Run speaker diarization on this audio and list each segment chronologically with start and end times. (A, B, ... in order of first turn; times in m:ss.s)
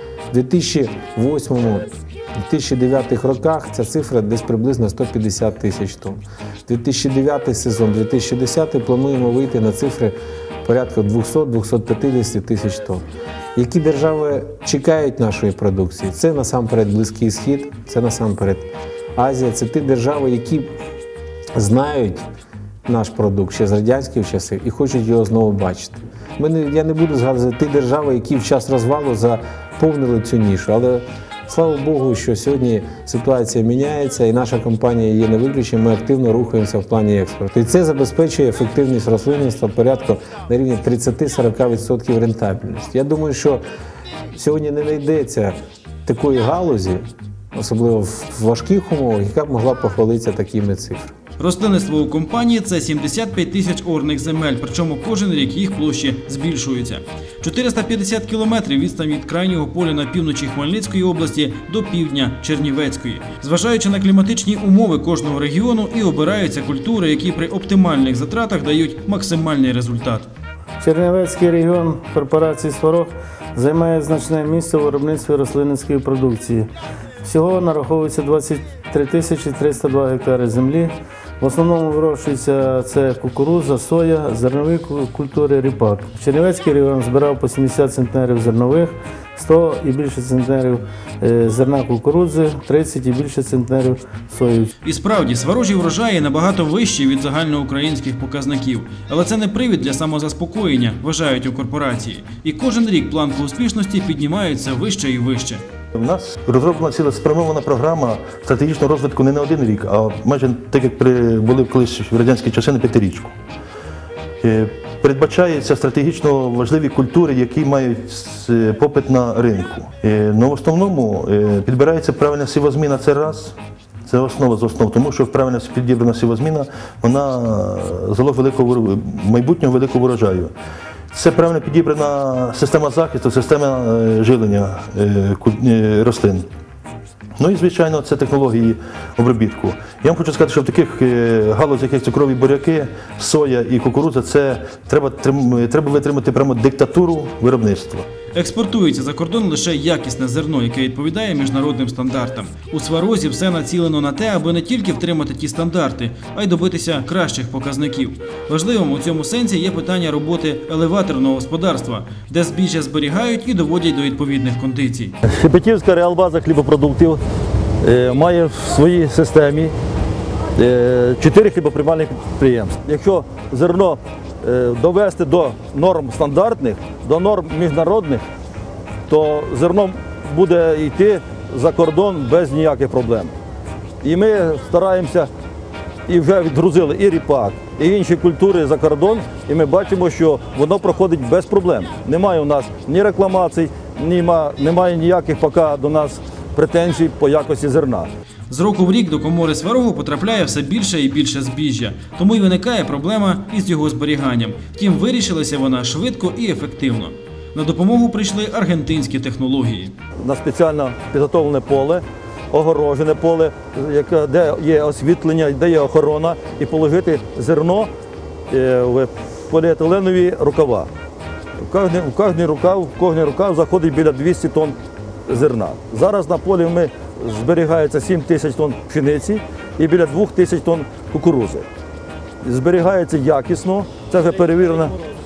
0:00.3-0:01.9 A
0:02.4-0:13.0 A
0:13.6-0:20.7 A
0:21.6-0:22.3 A
0:22.9-0:43.6 A
0:44.4-0:51.1 A
0:51.4-1:10.3 B
1:10.8-1:16.7 C
1:17.2-1:34.7 C
1:34.8-1:45.6 B
1:46.0-1:53.3 D
1:54.4-2:10.5 D
2:11.1-2:16.5 D
2:17.4-2:28.0 D
2:28.3-2:45.2 B
2:45.3-2:47.2 E
2:47.8-2:49.7 E
2:50.6-2:58.2 E
2:59.1-3:03.3 E
3:04.0-3:05.3 E
3:06.1-3:18.1 E
3:18.5-3:29.9 B
3:30.2-3:37.9 E
3:38.5-3:40.9 E
3:41.6-3:44.8 E
3:45.3-3:51.7 E
3:52.4-3:55.0 E